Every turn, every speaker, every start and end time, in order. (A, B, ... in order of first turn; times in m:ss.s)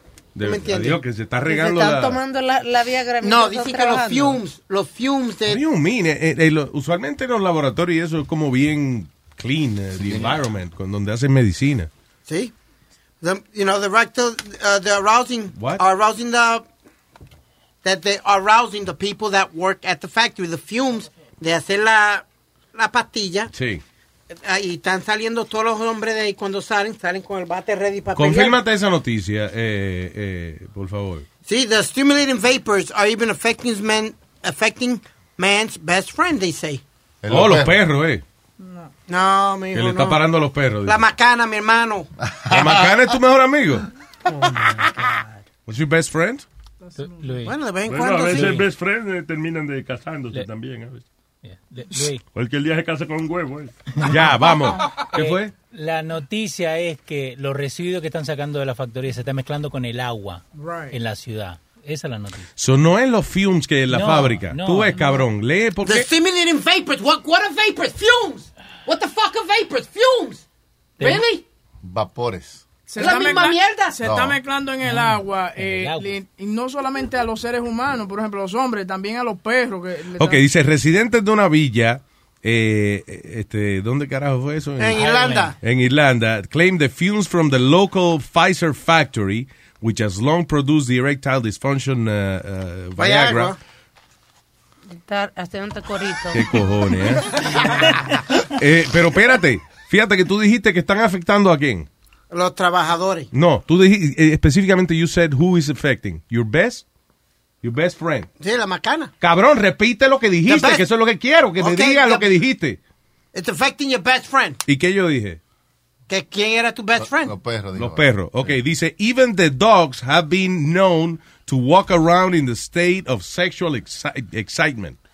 0:00.4-0:02.2 A
0:00.4-0:01.0 B
0:01.4-0:04.4 C
0:03.2-0:05.6 B
0:05.5-0:11.9 A
0:10.0-0:10.4 D
0:12.3-0:12.5 B
0:13.2-0:16.6 B
0:15.6-0:15.8 A
0:17.8-0:23.5 B
0:23.5-0:23.8 A
0:24.3-0:28.6 B
0:28.1-0:31.2 A
0:31.5-0:36.8 B
0:37.2-0:37.8 D
0:37.3-0:38.2 A
0:38.6-0:38.9 E
0:39.1-0:40.2 B
0:39.7-0:41.1 A
0:40.8-0:42.1 B
0:42.2-0:42.9 D
0:42.5-0:43.9 A
0:45.7-0:46.4 A
0:46.8-0:47.3 E
0:47.0-0:47.6 F
0:47.4-0:48.6 B
0:47.9-0:51.0 G
0:48.3-0:48.7 F
0:51.4-0:52.2 F
0:52.3-0:53.8 G
0:54.0-0:55.5 A
0:55.1-1:02.5 F
1:00.6-1:01.0 E
1:02.6-1:06.1 A
1:03.9-1:05.2 F
1:05.8-1:10.4 B
1:11.0-1:11.3 F
1:11.0-1:11.4 B
1:11.8-1:12.6 D
1:12.9-1:20.4 E
1:13.0-1:14.0 B
1:14.0-1:14.4 D
1:14.8-1:16.2 F
1:20.2-1:33.6 A
1:24.8-1:25.6 B
1:24.9-1:25.5 F
1:33.0-1:33.6 B
1:35.0-1:36.4 C
1:36.3-1:37.4 A
1:37.4-1:38.0 C
1:38.5-1:41.9 A
1:42.3-1:43.3 B
1:43.3-1:46.8 A
1:47.6-1:48.3 A
1:48.4-1:49.1 B
1:49.2-1:52.8 A
1:50.5-1:50.9 B
1:51.6-1:52.3 B
1:53.3-1:54.6 B
1:54.7-1:55.4 A
1:56.1-1:57.4 B
1:57.0-1:58.6 D
1:57.8-2:05.0 A